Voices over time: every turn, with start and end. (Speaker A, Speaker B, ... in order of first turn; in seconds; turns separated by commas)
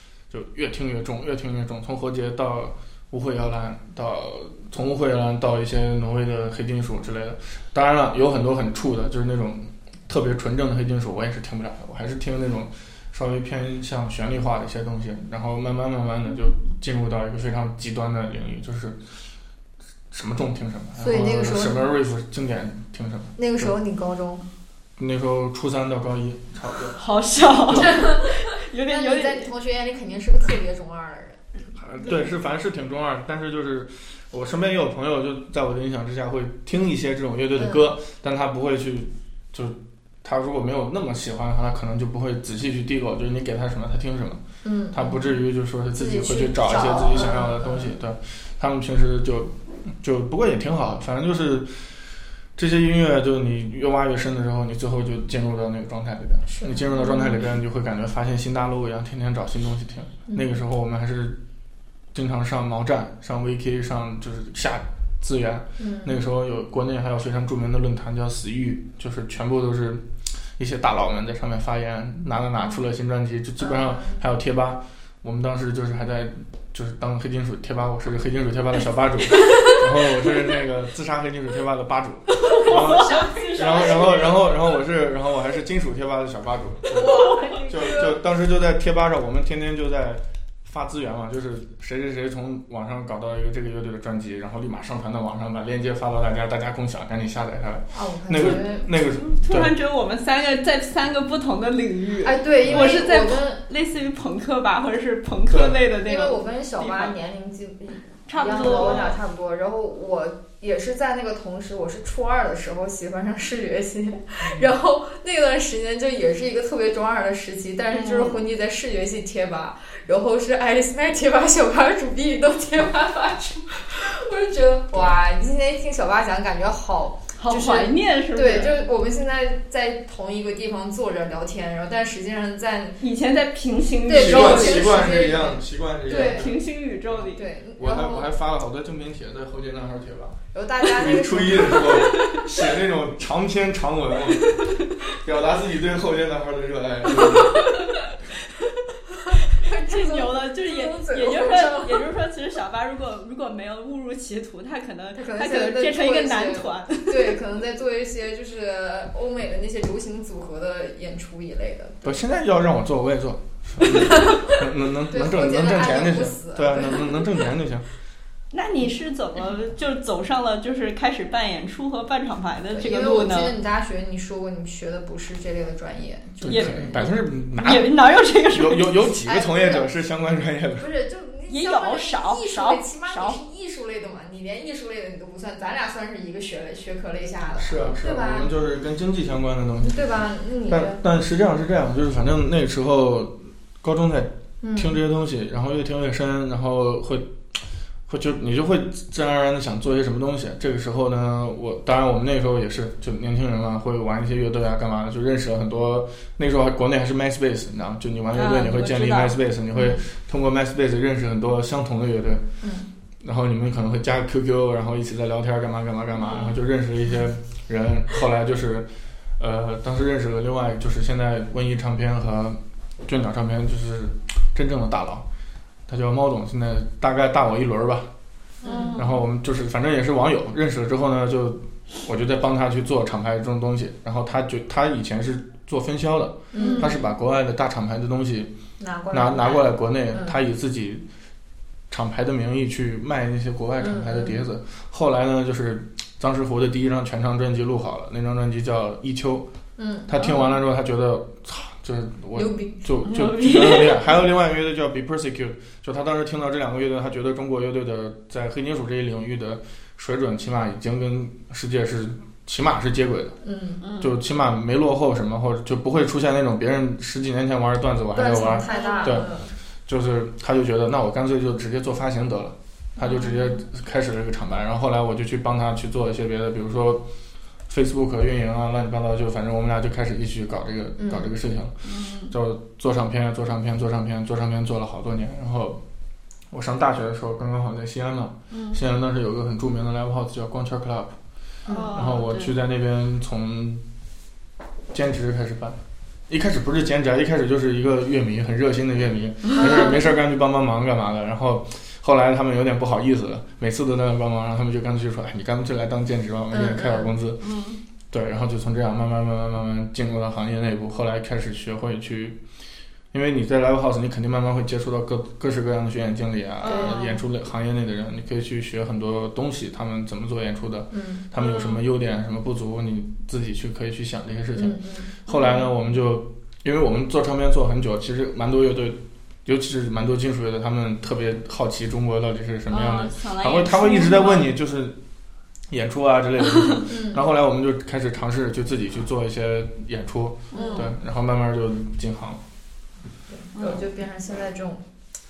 Speaker A: 0.3-19.0, Speaker A: 20.1-23.8, Speaker B: 21.0-21.8, Speaker B: 23.4-24.4, Speaker A: 25.0-27.0, Speaker C: 26.9-29.5, Speaker A: 27.7-28.0, Speaker B: 27.7-28.3, Speaker B: 28.8-31.4, Speaker A: 31.8-51.9, Speaker B: 37.6-37.9, Speaker B: 44.6-45.4, Speaker B: 45.9-47.9, Speaker A: 52.6-61.4, Speaker B: 56.5-57.1, Speaker C: 57.0-57.4, Speaker A: 62.1-99.7, Speaker B: 65.8-66.2, Speaker B: 73.6-74.2, Speaker C: 82.4-84.3, Speaker B: 82.7-84.2, Speaker C: 86.9-87.6, Speaker B: 86.9-88.2, Speaker B: 97.9-98.9, Speaker C: 99.2-107.2, Speaker B: 102.2-103.6, Speaker A: 102.6-103.0, Speaker A: 105.5-105.9, Speaker B: 106.0-133.0, Speaker C: 108.3-109.2, Speaker A: 108.6-109.2, Speaker C: 117.9-118.4, Speaker A: 124.9-125.2, Speaker C: 127.4-128.8, Speaker C: 133.0-135.1, Speaker B: 134.1-136.5, Speaker A: 134.1-136.6, Speaker C: 136.1-137.5, Speaker B: 137.3-138.3, Speaker A: 137.8-147.6, Speaker B: 140.5-142.3, Speaker C: 142.1-142.4, Speaker C: 147.2-147.9, Speaker B: 149.3-152.1, Speaker C: 149.6-157.4, Speaker B: 155.2-162.2, Speaker A: 162.0-167.9, Speaker B: 163.8-167.1, Speaker C: 168.5-173.6, Speaker B: 172.7-177.1, Speaker A: 176.4-177.9, Speaker C: 176.5-176.8, Speaker C: 177.6-178.8, Speaker A: 178.5-180.9, Speaker B: 179.2-179.9, Speaker B: 180.8-188.5, Speaker C: 181.5-183.4, Speaker A: 187.6-197.3, Speaker B: 189.8-191.0, Speaker B: 194.6-195.0, Speaker A: 198.1-212.4, Speaker C: 208.3-209.4, Speaker B: 209.7-210.0, Speaker B: 212.6-212.9, Speaker A: 213.2-225.3, Speaker A: 225.9-228.1, Speaker B: 228.6-229.1, Speaker C: 228.6-229.1, Speaker A: 228.9-238.5, Speaker B: 236.5-237.0, Speaker C: 236.6-237.0, Speaker B: 238.8-240.4, Speaker A: 239.1-241.1, Speaker A: 241.9-249.5, Speaker B: 243.8-244.4, Speaker B: 249.8-250.4, Speaker A: 250.1-263.4, Speaker B: 252.3-252.8, Speaker C: 253.1-254.0, Speaker B: 263.4-263.8, Speaker C: 263.8-264.2, Speaker A: 264.0-269.3, Speaker B: 268.1-269.5, Speaker C: 268.7-269.3, Speaker A: 269.9-277.1, Speaker C: 273.0-273.4, Speaker A: 277.7-281.8, Speaker B: 281.0-281.3, Speaker C: 281.9-282.3, Speaker A: 282.3-285.8, Speaker A: 286.5-291.1, Speaker C: 288.5-288.8, Speaker B: 291.6-292.0, Speaker C: 291.7-292.5, Speaker A: 291.9-293.9, Speaker A: 294.9-307.4, Speaker B: 299.6-300.0, Speaker B: 306.5-307.1, Speaker C: 307.4-307.8, Speaker A: 308.1-312.4, Speaker A: 313.1-335.0, Speaker B: 316.6-317.1, Speaker C: 316.6-317.1, Speaker B: 320.9-321.3, Speaker C: 321.4-321.8, Speaker B: 324.6-325.1, Speaker C: 325.3-325.7, Speaker C: 332.7-334.5, Speaker A: 335.7-342.4, Speaker B: 336.9-337.2, Speaker C: 340.5-340.9, Speaker B: 340.5-340.9, Speaker B: 343.3-344.8, Speaker C: 343.6-343.8